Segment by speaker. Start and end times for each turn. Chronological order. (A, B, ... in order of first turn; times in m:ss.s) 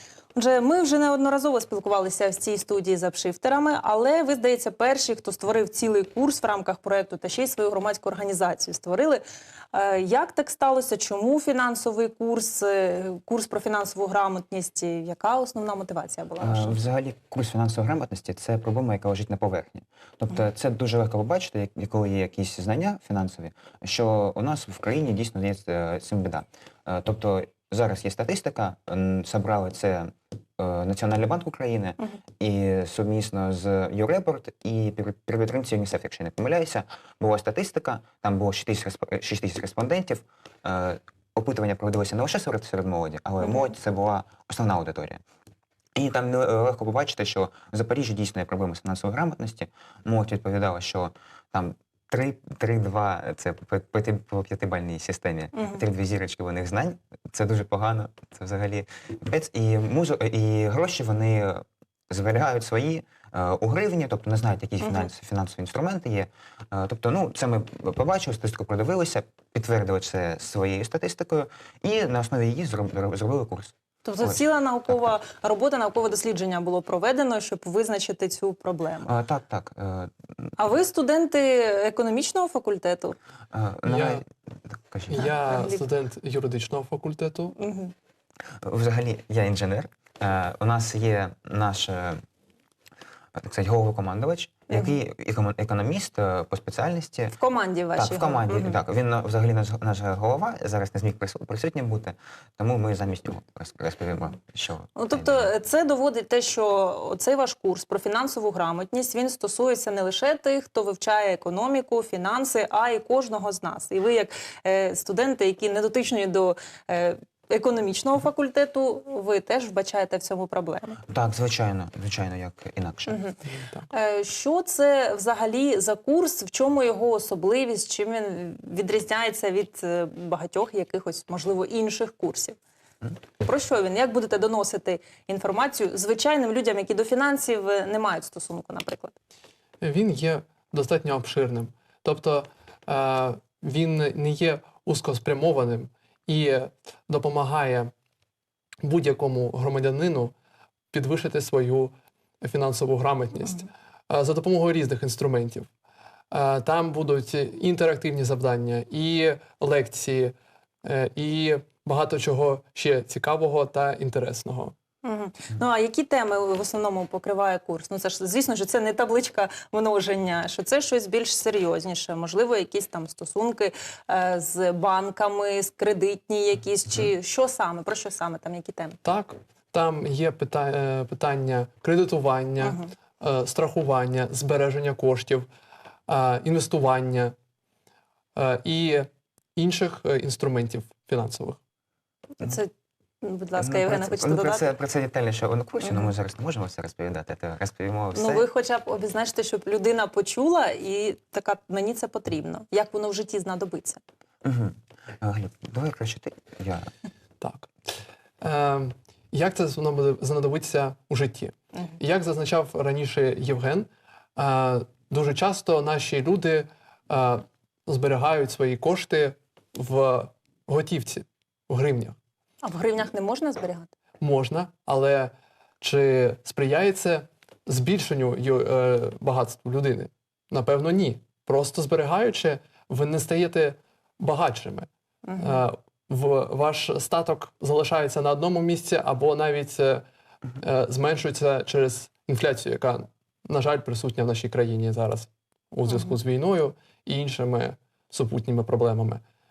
0:00.4-0:16.8 A
0:16.4-0:45.2 B
0:43.4-0:43.7 A
0:46.0-1:15.1 B
0:55.6-0:55.8 A
1:04.8-1:05.1 A
1:14.0-1:19.2 A
1:19.1-1:20.5 B
1:20.6-1:23.2 A
1:23.5-1:25.7 B
1:23.8-1:24.2 C
1:25.1-1:27.6 C
1:25.2-1:25.8 A
1:27.6-1:27.9 A
1:28.6-1:32.2 B
1:33.4-1:37.3 B
1:34.7-1:35.0 A
1:37.4-1:38.8 A
1:38.0-1:45.5 B
1:45.0-2:01.0 A
2:01.1-2:03.2 B
2:03.1-2:03.4 A
2:03.5-2:03.9 C
2:03.9-2:12.6 A
2:13.4-2:19.2 A
2:19.8-2:27.9 C
2:28.8-2:30.3 C
2:30.9-2:35.7 C
2:36.3-2:44.8 C
2:45.0-2:59.0 A
2:59.0-3:05.5 C
3:02.6-3:02.9 A
3:06.1-3:07.3 C
3:08.4-3:11.6 C
3:12.4-3:12.7 A
3:13.2-3:14.6 A
3:13.6-3:18.4 B
3:18.1-3:24.0 A
3:24.4-3:26.9 B
3:27.4-3:27.7 C
3:28.4-3:42.2 C
3:42.6-3:43.9 A
3:44.2-3:54.9 C
3:55.2-3:55.6 A
3:55.4-4:00.0 C
4:00.6-4:09.2 C